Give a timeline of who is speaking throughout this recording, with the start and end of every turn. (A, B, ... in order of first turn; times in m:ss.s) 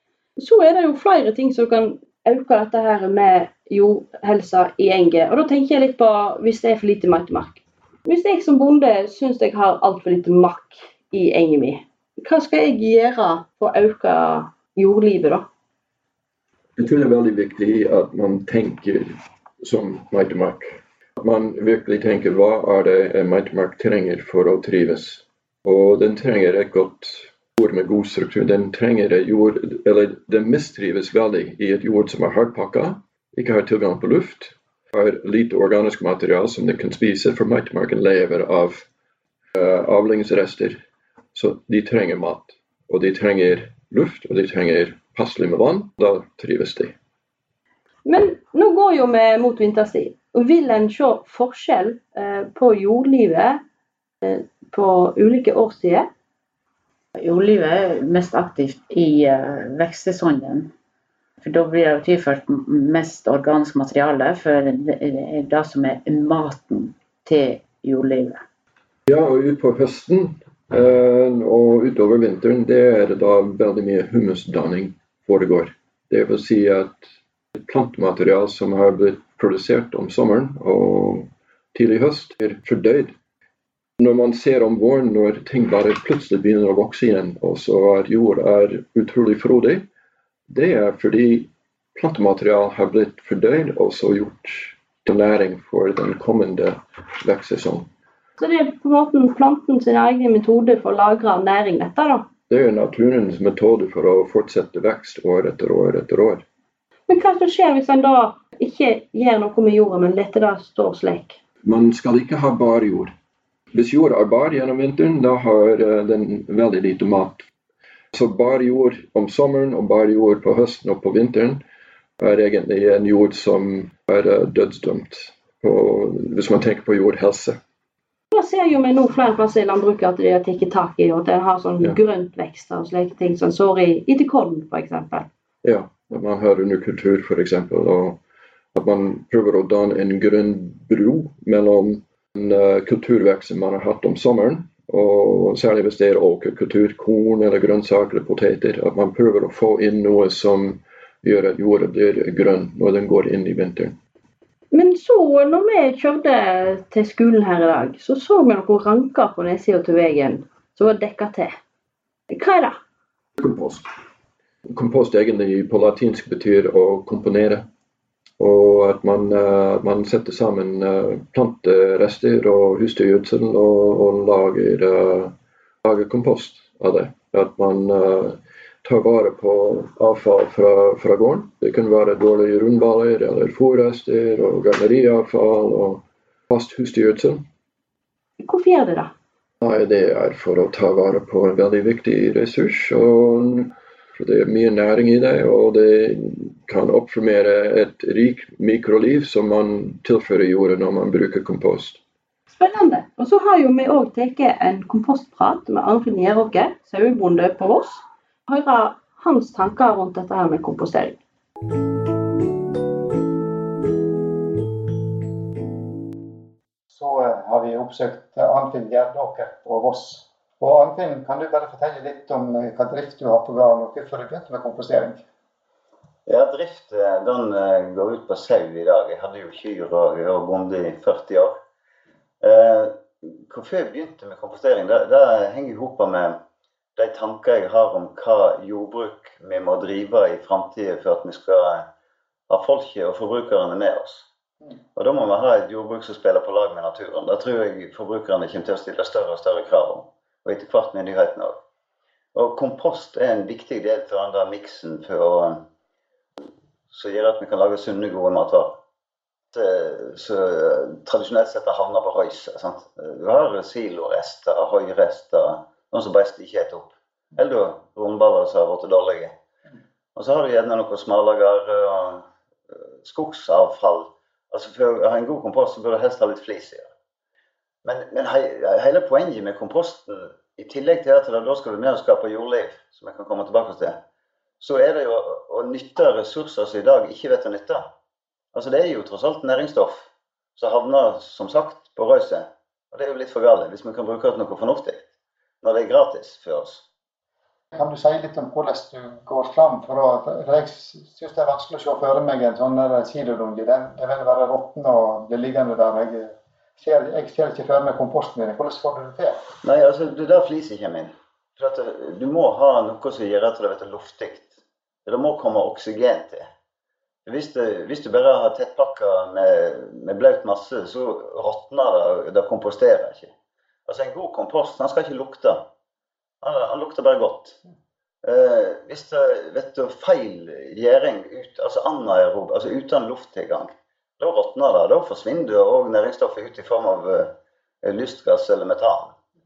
0:00.4-0:15.4 A
0:16.8-0:38.8 B
0:39.5-0:40.8 B
0:41.3-0:46.9 B
0:48.0-0:53.6 A
0:54.2-0:56.1 A
0:57.1-1:00.7 C
1:01.4-1:08.4 C
1:09.1-1:23.1 B
1:24.0-1:29.8 B
1:30.5-1:37.9 B
1:38.4-1:42.2 A
1:42.5-1:46.4 B
1:47.1-1:51.4 A
1:51.6-1:53.1 B
1:53.7-1:57.5 B
1:58.1-2:01.6 B
2:02.2-2:07.6 B
2:08.3-2:15.3 A
2:15.6-2:18.2 B
2:18.7-2:33.9 B
2:34.7-2:41.5 A
2:42.3-2:42.8 A
2:43.4-2:43.8 B
2:44.7-2:47.6 B
2:48.4-3:07.4 B
3:08.4-3:09.1 A
3:09.6-3:22.0 B
3:22.5-3:31.2 A
3:36.9-3:45.2 D
3:46.3-3:51.5 E
3:52.4-3:56.4 E
3:57.0-4:01.8 E
4:02.5-4:04.3 E
4:04.9-4:11.6 E
4:12.3-4:15.6 E
4:16.9-4:18.7 E
4:19.5-4:29.3 E
4:30.1-4:36.9 E
4:37.8-4:44.0 E
4:44.6-4:47.8 E
4:48.5-4:55.0 E
4:55.6-4:56.8 E
4:57.7-5:09.4 D
5:09.6-5:16.5 E
5:17.2-5:23.3 E
5:23.9-5:25.6 E
5:26.4-5:27.6 E
5:28.2-5:37.3 E
5:37.8-5:39.1 E